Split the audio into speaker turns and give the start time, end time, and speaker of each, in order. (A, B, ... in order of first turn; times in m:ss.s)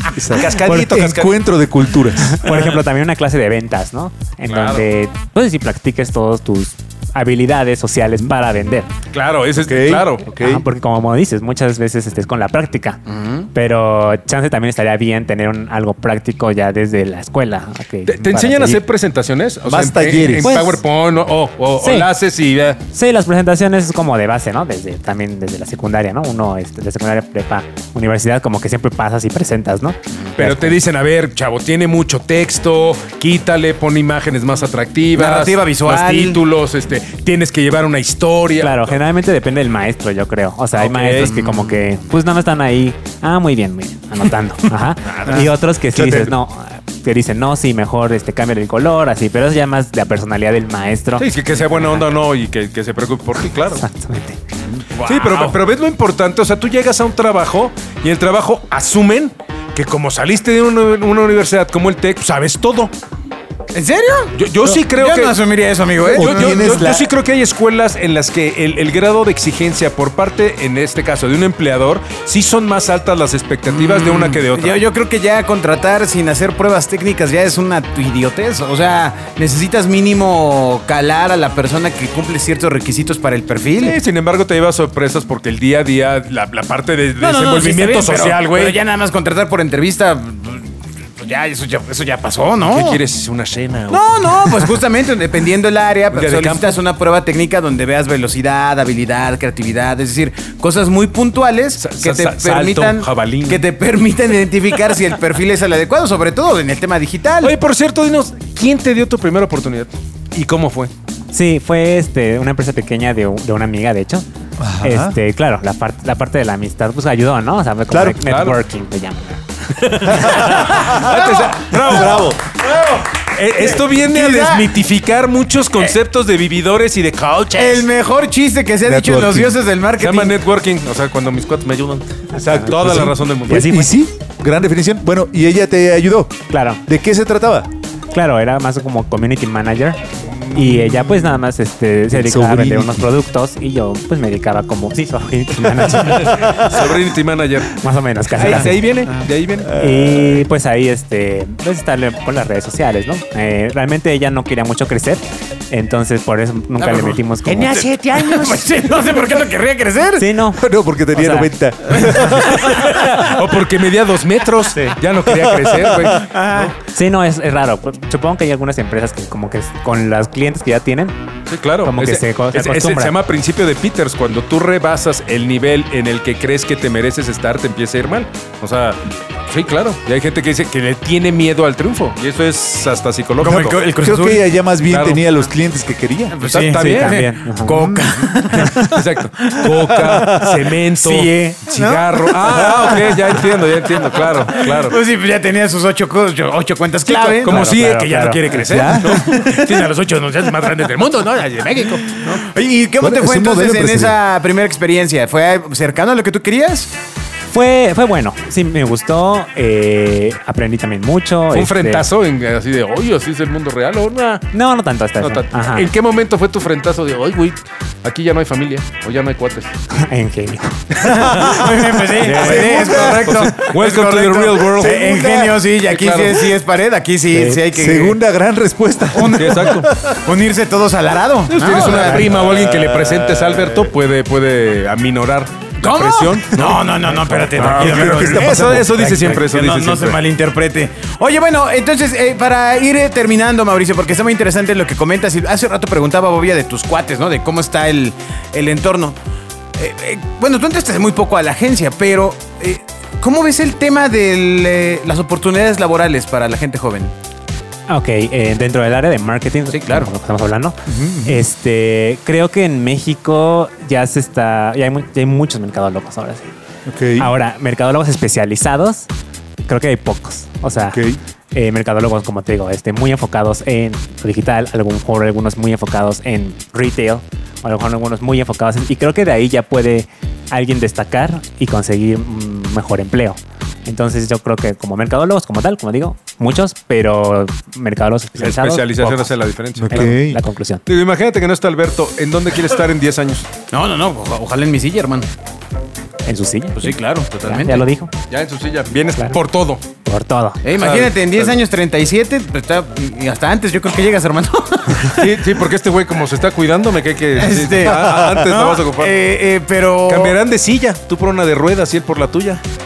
0:00.1-0:02.4 A
0:00.3-0:01.4 B
0:02.3-0:08.9 C
0:02.4-0:02.8 B
0:04.4-0:04.8 B
0:09.1-0:10.2 B
0:09.6-0:10.6 A
0:10.3-0:13.0 C
0:13.1-0:13.5 D
0:13.5-0:18.8 C
0:18.1-0:22.8 B
0:19.6-0:20.6 A
0:20.4-0:20.8 C
0:21.8-0:22.1 C
0:22.9-0:30.8 C
0:30.4-0:39.0 B
0:35.1-0:36.4 D
0:38.6-0:52.0 C
0:40.8-0:41.7 B
0:45.1-0:46.3 B
0:51.2-0:53.8 B
0:53.8-0:54.4 C
0:54.9-0:55.6 D
0:55.0-1:02.9 B
1:03.7-1:06.9 D
1:04.3-1:05.4 B
1:06.0-1:14.8 B
1:06.1-1:07.1 A
1:13.7-1:24.0 D
1:23.8-1:28.8 B
1:27.2-1:33.0 D
1:32.6-1:34.7 B
1:33.9-1:47.5 D
1:36.1-1:36.8 B
1:41.8-1:43.6 B
1:47.4-1:50.9 B
1:51.3-1:54.2 C
1:54.6-1:55.2 A
1:54.8-2:00.7 C
1:57.9-1:58.2 A
1:58.2-1:58.6 B
1:59.8-2:02.4 B
2:00.8-2:02.4 A
2:02.6-2:03.1 D
2:03.1-2:07.9 B
2:03.6-2:04.8 D
2:07.6-2:10.4 D
2:08.8-2:09.6 A
2:10.0-2:13.8 B
2:12.4-2:13.9 C
2:12.7-2:17.7 A
2:16.5-2:16.8 C
2:18.1-2:20.0 C
2:20.3-2:21.3 B
2:20.5-2:26.9 C
2:22.1-2:23.0 A
2:26.0-2:29.8 B
2:27.7-2:29.0 C
2:29.7-2:37.9 C
2:36.8-2:39.3 B
2:37.8-2:40.2 D
2:40.2-2:41.5 C
2:40.5-2:43.1 A
2:41.9-2:46.7 B
2:46.2-2:46.7 D
2:46.9-2:51.2 C
2:51.5-2:59.0 B
2:51.8-2:53.2 C
2:59.5-3:03.8 B
3:03.4-3:04.4 D
3:04.0-3:06.4 A
3:04.9-3:05.2 B
3:06.3-3:17.6 D
3:06.4-3:07.3 B
3:06.7-3:07.8 C
3:07.7-3:08.0 A
3:08.6-3:15.0 B
3:17.1-3:22.4 B
3:17.4-3:18.6 C
3:18.6-3:19.2 A
3:19.0-3:19.9 D
3:20.5-3:20.9 D
3:22.0-3:26.9 D
3:23.0-3:24.2 A
3:27.5-3:32.0 C
3:31.5-3:34.5 B
3:34.5-3:35.9 C
3:35.2-3:39.7 B
3:39.9-3:40.9 C
3:41.0-3:48.2 D
3:41.0-3:45.2 B
3:42.3-3:43.4 A
3:44.8-3:45.6 A
3:45.8-3:46.6 B
3:47.3-3:47.6 C
3:47.7-3:50.1 A
3:49.1-3:52.3 D
3:49.3-3:49.9 B
3:51.5-4:00.2 B
3:51.7-3:53.7 A
3:55.8-4:09.2 D
3:57.6-3:59.4 A
4:09.8-4:17.1 D
4:17.9-4:26.5 C
4:19.7-4:20.1 D
4:20.9-4:21.4 A
4:26.8-4:27.3 A
4:27.2-4:29.1 C
4:29.7-4:49.4 C
4:30.9-4:31.2 A
4:48.4-4:50.2 B
4:49.8-4:50.4 A
4:49.9-4:50.8 C
4:50.8-4:53.5 B
4:53.7-4:55.3 D
4:56.2-4:58.1 C
4:56.8-4:57.8 D
4:58.3-4:59.8 B
5:00.0-5:00.6 C
5:00.6-5:05.3 D
5:00.8-5:01.6 B
5:05.1-5:09.2 B
5:07.3-5:10.4 D
5:10.1-5:12.6 B